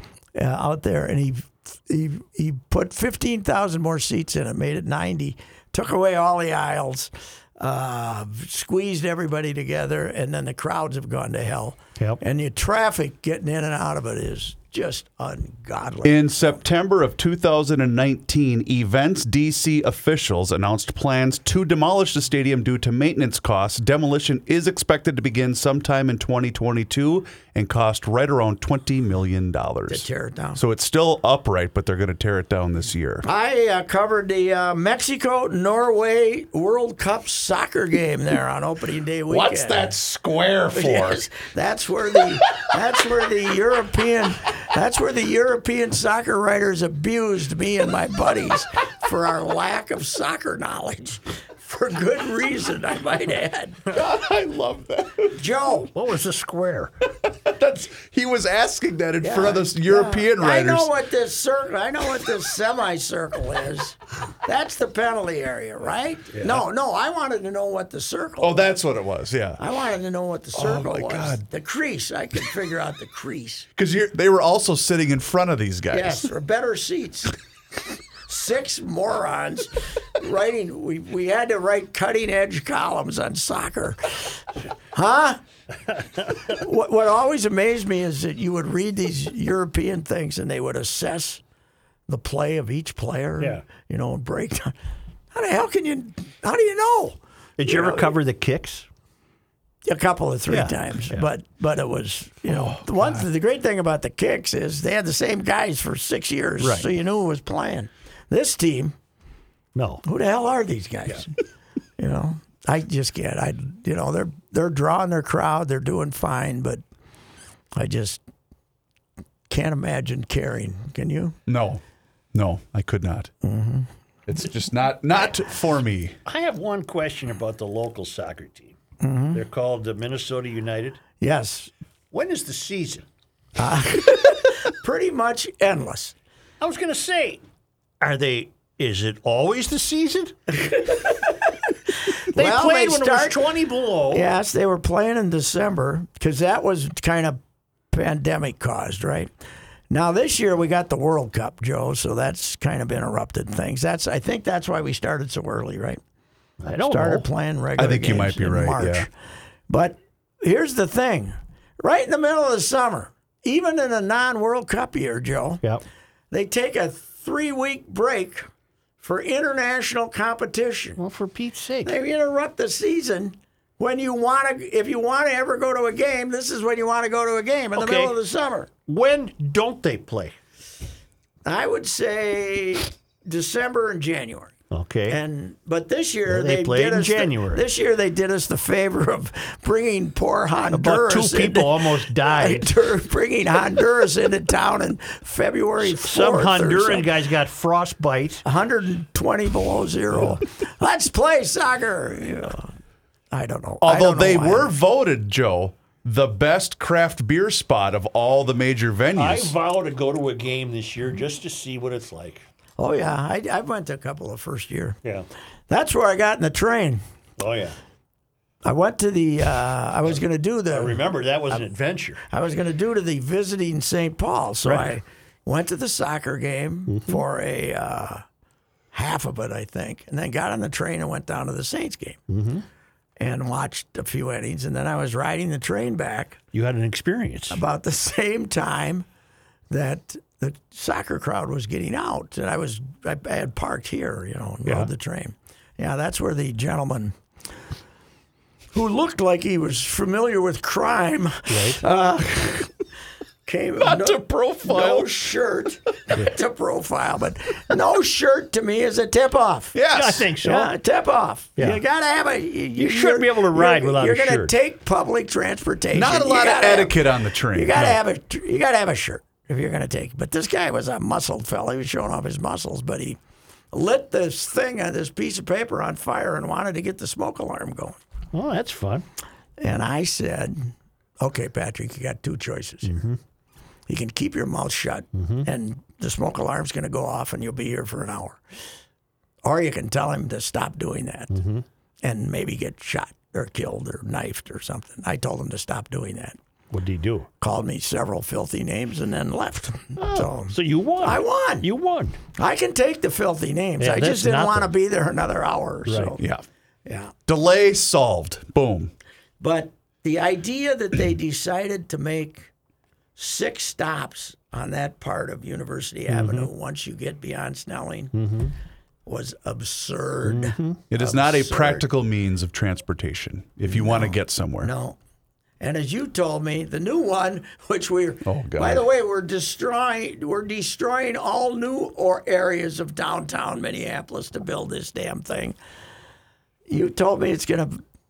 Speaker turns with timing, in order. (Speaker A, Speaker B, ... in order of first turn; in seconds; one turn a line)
Speaker A: 0.3-16.6
Speaker B: 16.0-33.3
Speaker A: 29.9-30.6
Speaker A: 33.2-40.0
Speaker B: 39.3-41.2
Speaker A: 40.7-53.8
Speaker B: 53.9-55.4
Speaker A: 55.4-55.9
Speaker C: 55.9-56.9
Speaker B: 57.2-60.9
Speaker A: 59.2-68.7
Speaker C: 66.3-66.6
Speaker B: 68.4-69.6
Speaker A: 69.6-73.7
Speaker B: 70.5-71.4
Speaker B: 73.8-76.3
Speaker A: 75.9-77.4
Speaker A: 78.3-85.4
Speaker A: 86.4-91.4
Speaker A: 92.1-94.8
Speaker A: 95.3-98.1
Speaker C: 97.6-98.9
Speaker A: 99.9-108.9
Speaker C: 100.5-101.3
Speaker B: 102.5-103.2
Speaker C: 106.6-106.9
Speaker C: 109.8-110.0
Speaker A: 110.0-111.3
Speaker A: 112.0-116.8
Speaker A: 117.8-118.2
Speaker A: 119.5-121.4
Speaker B: 121.5-121.8
Speaker B: 122.3-123.3
Speaker A: 123.4-123.9
Speaker B: 124.3-126.2
Speaker C: 126.3-128.8
Speaker A: 129.0-129.4
Speaker C: 129.3-131.0
Speaker A: 131.2-131.7
Speaker C: 132.1-133.1
Speaker A: 133.6-136.2
Speaker C: 136.6-137.4
Speaker C: 138.0-140.5
Speaker A: 140.5-143.4
Speaker C: 142.3-144.3
Speaker A: 144.1-147.4
Speaker A: 147.9-149.3
Speaker A: 149.9-156.0
Speaker C: 156.6-157.3
Speaker A: 156.8-159.1
Speaker B: 157.8-159.1
Speaker A: 159.7-165.6
Speaker A: 166.3-168.5
Speaker A: 169.0-171.0
Speaker C: 171.0-171.9
Speaker A: 171.8-178.7
Speaker C: 177.8-178.1
Speaker C: 178.9-180.3
Speaker A: 181.4-184.5
Speaker C: 184.7-185.2
Speaker A: 185.1-197.1
Speaker C: 186.3-187.7
Speaker C: 190.7-192.7
Speaker C: 195.8-198.4
Speaker A: 198.4-202.7
Speaker C: 200.1-200.4
Speaker A: 203.3-204.7
Speaker B: 203.8-209.6
Speaker C: 209.2-212.4
Speaker A: 212.8-215.0
Speaker A: 215.7-217.0
Speaker C: 217.4-217.8
Speaker A: 218.7-221.0
Speaker C: 220.7-222.2
Speaker A: 222.3-228.2
Speaker C: 224.7-224.9
Speaker C: 226.9-227.2
Speaker A: 228.9-232.2
Speaker C: 232.3-232.7
Speaker A: 233.2-236.4
Speaker C: 236.5-237.6
Speaker A: 237.5-239.1
Speaker A: 239.7-247.1
Speaker C: 244.7-244.9
Speaker A: 248.7-252.7
Speaker C: 251.5-251.8
Speaker A: 253.5-259.8
Speaker B: 253.8-255.2
Speaker B: 259.7-260.3
Speaker C: 259.9-260.7
Speaker A: 260.4-267.0
Speaker C: 262.8-264.5
Speaker B: 265.9-268.0
Speaker A: 267.5-273.2
Speaker A: 273.7-278.0
Speaker C: 278.3-279.1
Speaker A: 279.6-282.9
Speaker C: 282.8-283.2
Speaker A: 283.9-288.4
Speaker C: 285.2-285.5
Speaker A: 289.4-291.4
Speaker C: 291.3-291.6
Speaker A: 292.0-296.4
Speaker C: 296.7-297.3
Speaker A: 297.4-301.7
Speaker C: 300.0-302.2
Speaker A: 302.4-306.2
Speaker C: 303.8-304.7
Speaker C: 305.9-306.2
Speaker B: 306.2-306.4
Speaker A: 306.9-307.1
Speaker B: 307.3-308.9
Speaker A: 309.4-312.5
Speaker A: 313.2-318.1
Speaker C: 316.1-316.5
Speaker C: 318.1-318.5
Speaker A: 319.1-321.9
Speaker C: 320.2-320.8
Speaker B: 320.9-324.7
Speaker A: 323.7-325.0
Speaker A: 325.6-335.6
Speaker B: 328.2-328.8
Speaker A: 336.7-337.8